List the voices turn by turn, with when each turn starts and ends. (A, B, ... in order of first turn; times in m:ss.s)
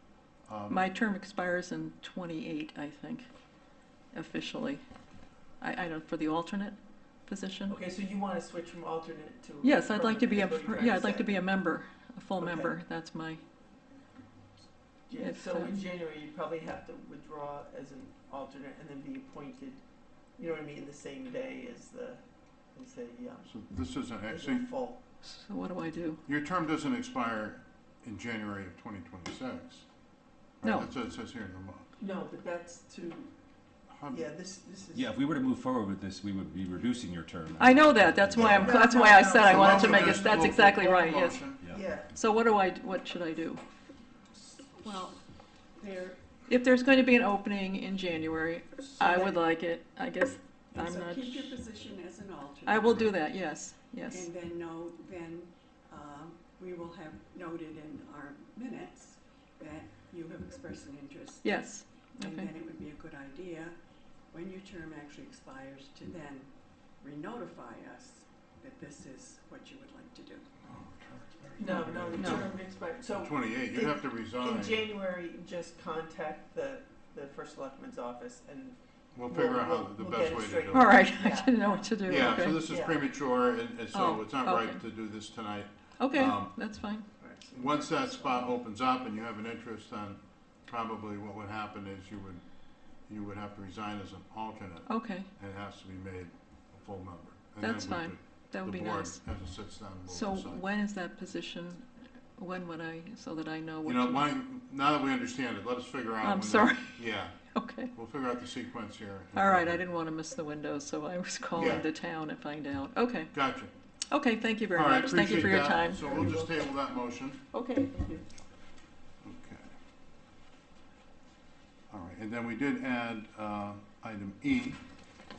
0:00.5-0:00.9 A
0:00.7-0:03.2 B
0:04.1-0:04.8 B
0:05.6-0:06.8 B
0:07.3-0:07.8 B
0:07.7-0:11.5 C
0:09.6-0:13.4 B
0:12.4-0:12.8 C
0:15.1-0:19.8 C
0:15.2-0:15.8 B
0:20.4-0:22.2 C
0:22.7-0:23.5 C
0:23.4-0:24.6 A
0:24.2-0:25.0 C
0:25.2-0:26.2 B
0:26.2-0:29.8 A
0:30.6-0:31.9 A
0:32.0-0:33.3 C
0:33.9-0:34.3 A
0:34.1-0:35.0 C
0:34.9-0:38.6 D
0:37.6-0:41.4 B
0:38.4-0:40.8 C
0:39.4-0:41.7 A
0:41.5-0:42.1 C
0:42.1-0:43.6 B
0:44.7-0:45.2 E
0:45.8-0:46.2 E
0:46.5-0:51.6 B
0:48.9-0:49.4 C
0:50.7-0:53.2 E
0:52.7-0:54.3 B
0:54.1-1:01.7 E
1:01.4-1:02.5 B
1:02.2-1:03.8 E
1:04.3-1:10.5 E
1:10.6-1:12.6 A
1:11.6-1:18.8 C
1:12.2-1:12.5 B
1:13.1-1:14.8 A
1:19.1-1:21.0 A
1:19.3-1:23.0 C
1:20.7-1:22.6 B
1:22.0-1:26.6 A
1:23.9-1:24.8 B
1:26.0-1:27.1 B
1:27.2-1:28.5 C
1:27.5-1:32.4 A
1:33.1-1:40.6 A
1:34.9-1:35.3 B
1:37.6-1:39.2 B
1:40.1-1:44.2 B
1:43.8-1:47.3 A
1:46.2-1:47.9 B
1:47.9-1:49.8 A
1:49.3-1:53.3 B
1:51.6-1:51.9 A
1:53.3-1:53.7 A
1:54.1-1:56.1 B
1:54.7-1:57.4 A
1:55.9-1:56.5 C
1:57.5-1:58.2 C
1:59.2-1:59.7 A
2:01.9-2:04.8 A